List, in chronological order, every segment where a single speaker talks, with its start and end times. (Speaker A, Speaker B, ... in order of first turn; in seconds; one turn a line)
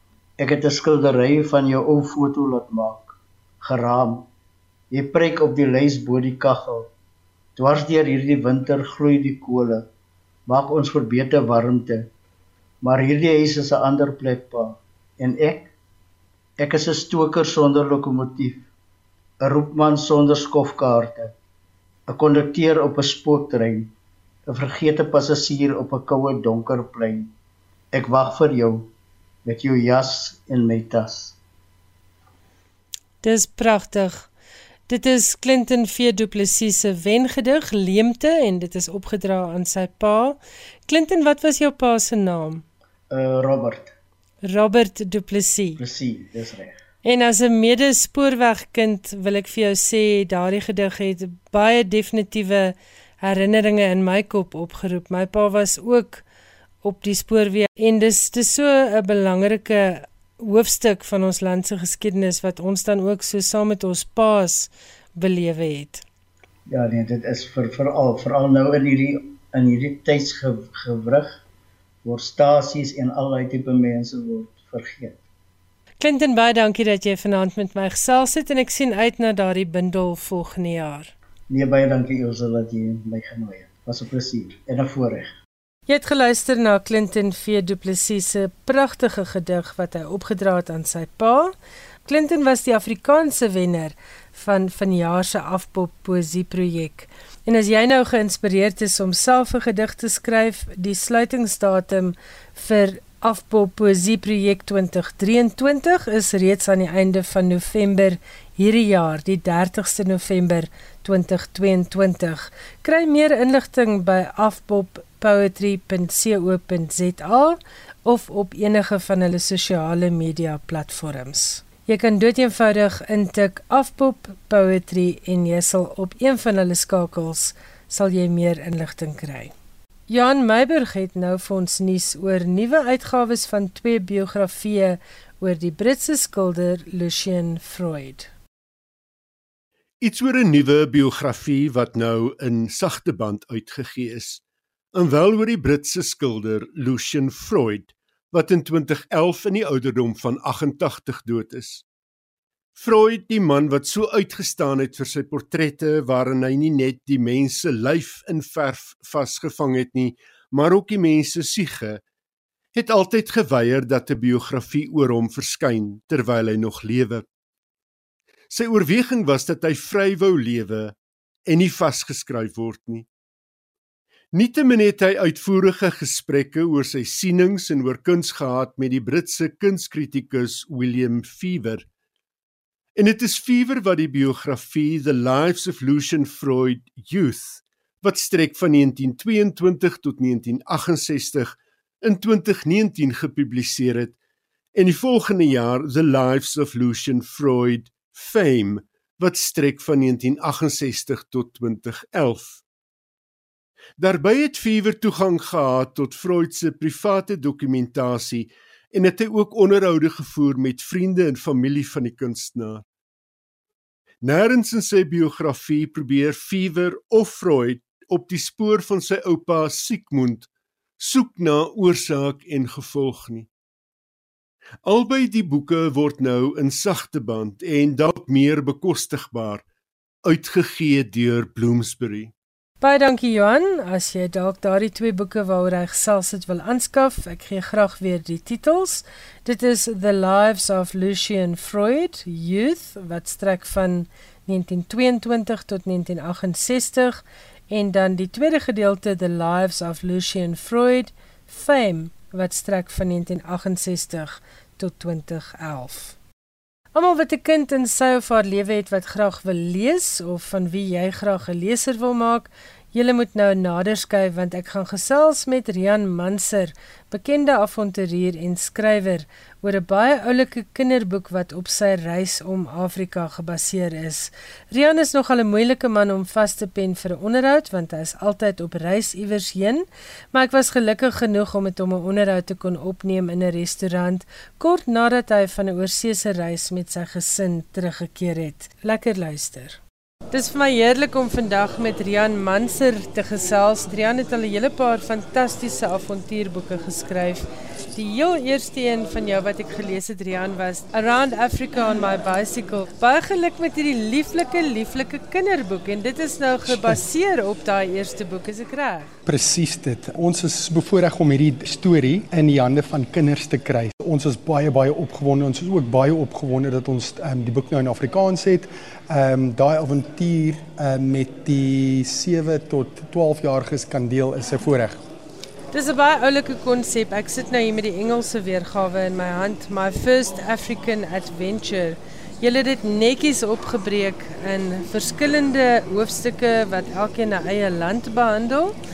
Speaker A: 0.4-4.2
Speaker A: 4.9-6.9
Speaker A: 7.5-9.8
Speaker A: 10.5-12.1
Speaker A: 12.8-15.7
Speaker A: 16.6-18.7
Speaker A: 19.4-21.3
Speaker A: 22.1-23.9
Speaker A: 24.5-27.3
Speaker A: 27.9-28.9
Speaker A: 29.4-31.4
Speaker B: 33.2-34.3
Speaker B: 34.9-42.6
Speaker A: 43.1-43.9
Speaker B: 44.4-45.8
Speaker A: 45.8-46.8
Speaker B: 47.0-56.2
Speaker B: 56.8-66.0
Speaker A: 66.7-71.4
Speaker A: 72.0-75.2
Speaker B: 76.0-81.1
Speaker A: 81.5-85.3
Speaker B: 85.9-91.5
Speaker B: 92.0-129.5
Speaker B: 130.1-138.3
Speaker C: 140.0-144.4
Speaker C: 144.9-151.8
Speaker C: 152.8-162.0
Speaker C: 162.7-167.2
Speaker C: 168.5-170.9
Speaker C: 171.5-173.1
Speaker C: 174.3-181.8
Speaker C: 182.9-194.1
Speaker C: 194.7-202.6
Speaker C: 204.0-212.8
Speaker C: 214.2-220.5
Speaker C: 221.0-223.5
Speaker C: 224.8-229.6
Speaker C: 230.2-232.3
Speaker B: 232.8-256.2
Speaker B: 256.9-289.8
Speaker B: 290.3-309.1
Speaker D: 309.2-325.0
Speaker B: 325.7-338.7